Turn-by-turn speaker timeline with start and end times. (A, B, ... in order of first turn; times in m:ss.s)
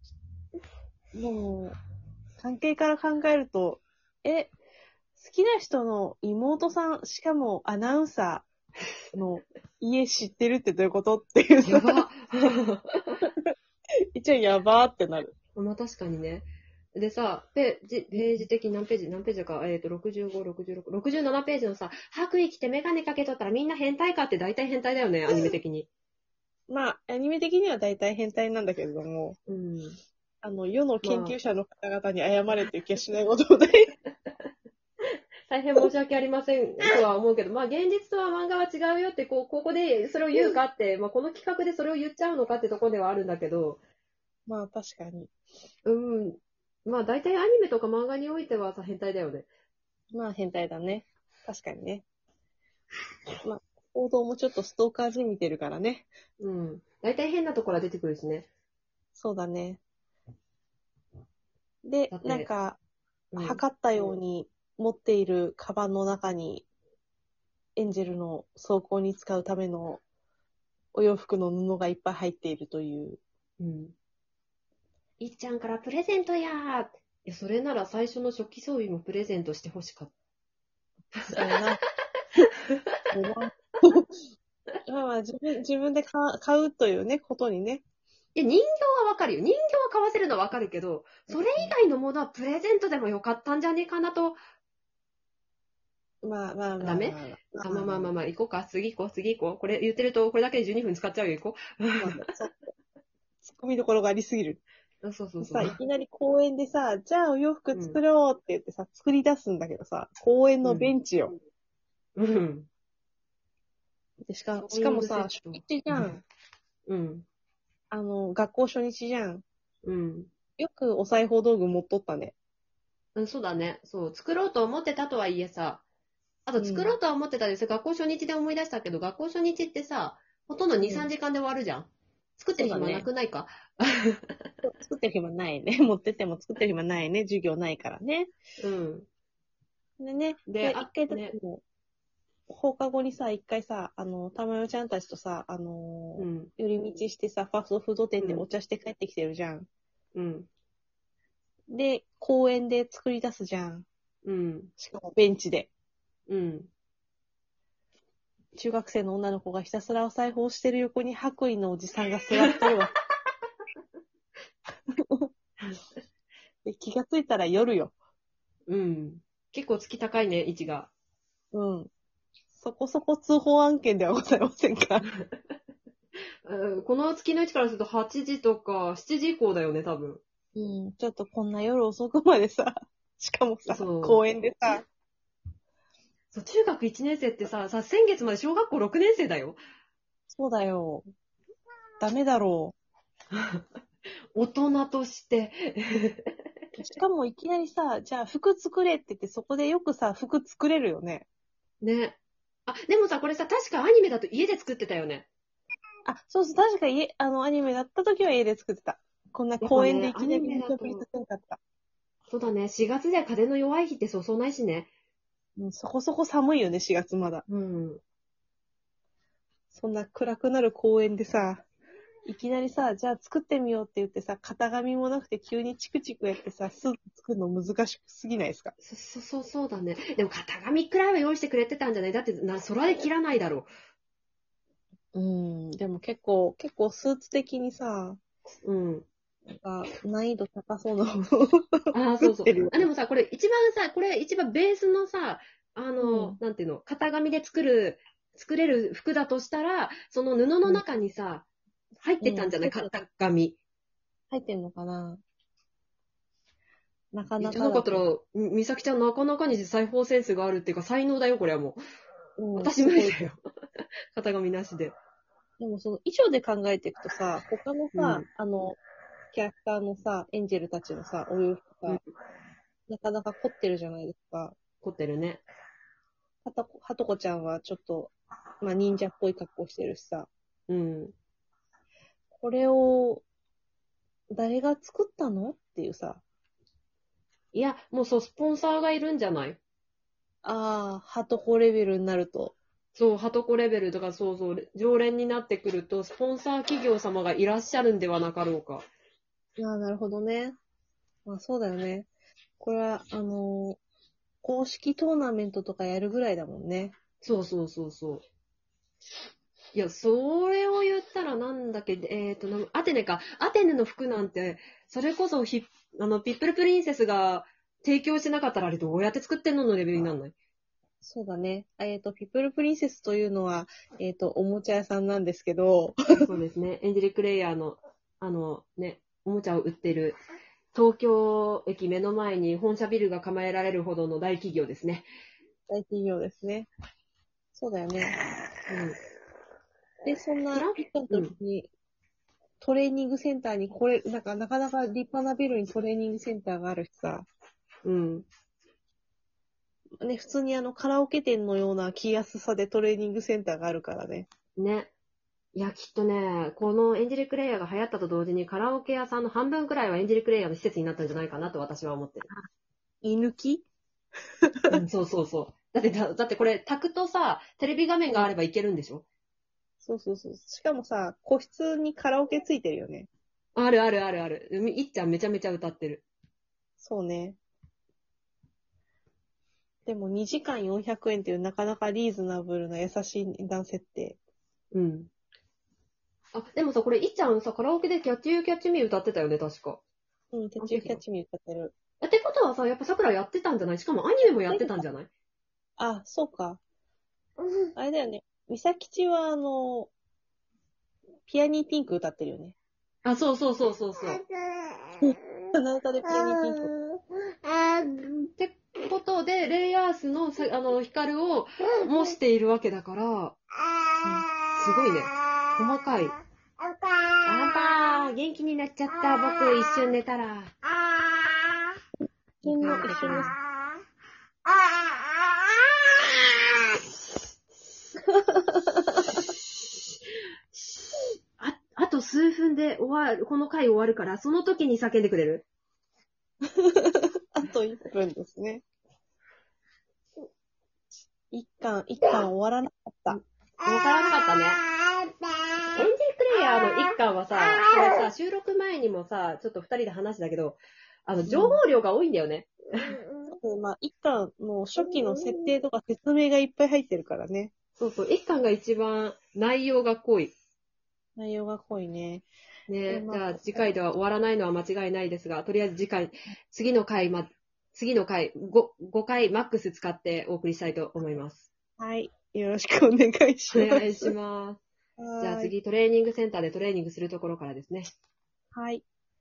0:01.1-0:01.8 A
0:02.4-0:04.5 A
0:05.2-0:08.5 A
0:09.1-0:12.1 A
0:11.6-0:13.2 B
0:14.2-0:15.4 A
0:15.6-0:25.9 B
0:18.1-0:18.5 A
0:25.3-0:25.6 A
0:26.7-0:29.4 A
0:29.5-0:30.0 B
0:30.4-0:33.9 A
0:31.0-0:31.4 B
0:35.5-0:43.8 B
0:44.5-0:45.3 A
0:45.9-0:49.5 B
0:50.1-0:52.0 A
0:53.4-0:56.1 A
0:56.4-0:58.5 B
0:59.2-0:59.8 A
1:01.8-1:02.8 A
1:02.1-1:02.5 B
1:03.3-1:04.1 B
1:03.4-1:06.7 A
1:07.8-1:10.0 A
1:10.9-1:13.2 A
1:13.6-1:13.9 B
1:15.2-1:20.1 B
1:21.2-1:21.6 B
1:21.3-1:21.8 A
1:22.4-1:22.9 B
1:23.1-1:24.1 A
1:24.9-1:27.8 A
1:28.4-1:34.4 B
1:31.3-1:31.8 A
1:36.2-1:38.1 A
1:36.8-1:42.3 B
1:42.0-1:42.6 A
1:43.4-1:44.6 A
1:45.0-1:45.8 B
1:45.4-1:51.4 A
1:50.6-1:50.9 B
1:52.2-1:52.7 B
1:54.2-1:56.2 A
1:54.6-1:56.1 B
1:56.9-1:57.3 B
1:57.9-1:59.4 A
1:59.8-2:00.3 B
2:00.6-2:02.4 A
2:03.2-2:05.8 B
2:06.5-2:14.5 B
2:06.6-2:07.0 A
2:10.8-2:11.1 A
2:12.6-2:13.1 A
2:14.6-2:18.3 A
2:18.6-2:19.1 B
2:20.0-2:21.6 A
2:20.5-2:21.4 B
2:22.5-2:29.7 A
2:26.2-2:26.5 B
2:28.2-2:28.5 B
2:30.1-2:30.5 B
2:31.7-2:33.9 A
2:34.2-2:34.7 B
2:34.8-2:35.7 A
2:36.3-2:36.7 B
2:38.6-2:42.9 A
2:45.0-2:45.3 A
2:46.6-2:47.9 A
2:48.7-2:50.9 B
2:51.5-2:51.9 A
2:52.6-2:55.1 A
2:56.4-3:00.2 B
3:00.6-3:04.9 A
3:03.7-3:04.2 B
3:06.3-3:09.6 B
3:10.3-3:11.1 A
3:12.0-3:12.8 A
3:13.3-3:13.6 B
3:14.4-3:16.9 B
3:16.8-3:21.3 A
3:21.8-3:25.3 B
3:26.1-3:31.6 A
3:29.6-3:31.1 B
3:32.3-3:34.9 B
3:35.6-3:37.4 A
3:37.5-3:38.0 B
3:39.7-3:41.7 A
3:42.3-3:48.7 A
3:48.8-3:53.7 B
3:55.1-3:58.2 A
3:58.6-3:59.1 B
3:59.5-4:02.9 A
4:01.9-4:11.5 B
4:06.0-4:06.4 A
4:12.0-4:13.6 B
4:12.2-4:13.0 A
4:14.3-4:15.2 A
4:17.1-4:18.1 A
4:17.4-4:21.8 B
4:22.4-4:23.2 A
4:22.6-4:23.4 B
4:24.1-4:25.0 B
4:25.6-4:28.8 A
4:27.9-4:28.2 B
4:29.3-4:32.0 A
4:32.9-4:34.6 A
4:34.8-4:35.4 B
4:36.4-4:40.3 A
4:40.7-4:41.1 B
4:42.3-4:43.2 A
4:44.3-4:46.2 A
4:47.5-4:49.6 B
4:50.4-4:52.6 A
4:53.0-4:58.9 B
4:59.6-5:00.6 A
5:01.3-5:02.1 A
5:02.6-5:03.8 A
5:04.4-5:07.0 A
5:07.2-5:08.2 B
5:09.7-5:20.3 B
5:21.0-5:26.3 A
5:26.2-5:30.2 B
5:30.7-5:35.1 B
5:35.7-5:36.7 A
5:37.5-5:38.2 A
5:38.7-5:39.0 B
5:40.0-5:41.7 A
5:40.5-5:41.4 B
5:42.6-5:47.3 A
5:47.8-5:48.3 B
5:50.0-5:54.3 A
5:54.6-5:54.9 B
5:55.6-6:02.3 B
6:03.0-6:03.7 A
6:04.5-6:04.8 A
6:04.7-6:09.1 B
6:09.8-6:13.1 A
6:13.6-6:16.0 B
6:16.8-6:17.4 A
6:19.9-6:24.2 A
6:24.7-6:25.1 B
6:26.3-6:29.8 B
6:30.3-6:31.8 A
6:30.6-6:31.0 B
6:32.0-6:35.1 B
6:34.5-6:34.8 A
6:35.8-6:36.6 A
6:37.8-6:39.9 A
6:41.3-6:42.6 A
6:43.0-6:44.2 B
6:45.0-6:46.7 A
6:48.4-6:53.4 B
6:54.6-6:56.2 B
6:57.2-7:00.5 B
7:02.4-7:03.3 B
7:02.4-7:03.3 A
7:08.1-7:09.2 A
7:10.5-7:15.4 B
7:16.6-7:18.6 A
7:21.3-7:23.2 A
7:23.1-7:24.6 B
7:25.7-7:33.0 B
7:31.3-7:31.6 A
7:33.3-7:37.5 A
7:37.8-7:40.3 B
7:41.2-7:42.3 A
7:42.7-7:51.5 B
7:42.9-7:43.7 A
7:51.8-7:54.1 A
7:53.5-7:54.6 B
7:55.0-7:55.5 A
7:55.2-7:57.9 B
7:58.5-7:58.8 A